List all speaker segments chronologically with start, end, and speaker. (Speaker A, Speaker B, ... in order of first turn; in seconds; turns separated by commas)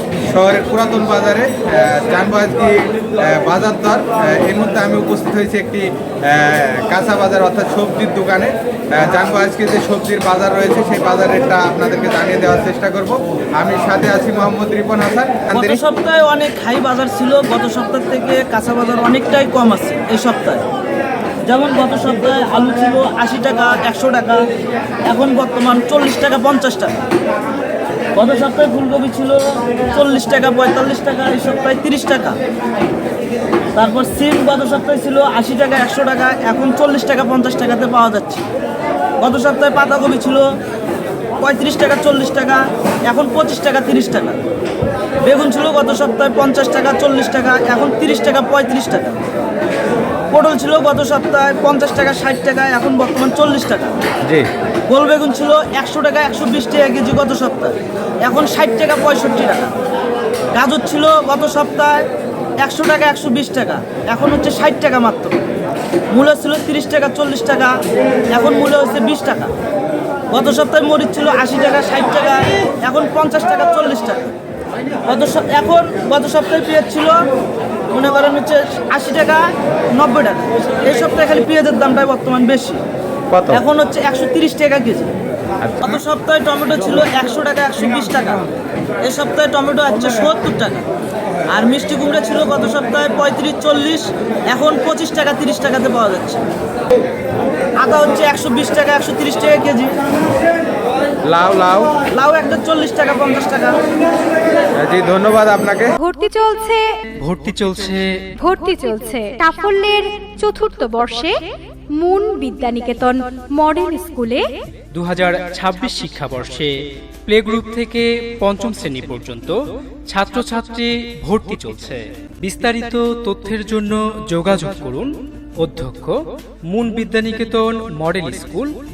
Speaker A: 0.3-15.8, Speaker B: 15.5-20.6, Speaker B: 21.5-24.4, Speaker B: 25.1-26.9, Speaker B: 28.1-29.4, Speaker B: 29.9-32.4, Speaker B: 33.7-38.4, Speaker B: 39.2-40.5, Speaker B: 41.4-44.4, Speaker B: 45.2-49.2, Speaker B: 50.3-53.9, Speaker B: 54.9-59.7, Speaker B: 60.5-62.0, Speaker B: 62.6-65.4, Speaker B: 66.1-67.7, Speaker B: 68.3-69.5, Speaker B: 70.3-74.3, Speaker B: 75.0-77.2, Speaker B: 77.9-82.8, Speaker B: 83.5-85.1, Speaker B: 85.8-88.4, Speaker B: 89.0-90.8, Speaker B: 91.5-96.4, Speaker B: 97.8-99.9, Speaker A: 101.3-101.9, Speaker B: 102.1-103.8, Speaker A: 104.8-105.9, Speaker C: 106.0-106.8, Speaker D: 107.2-108.0, Speaker C: 108.4-111.3, Speaker C: 112.0-114.5, Speaker D: 114.9-116.7, Speaker D: 117.2-119.6, Speaker D: 120.1-126.2, Speaker D: 126.7-128.7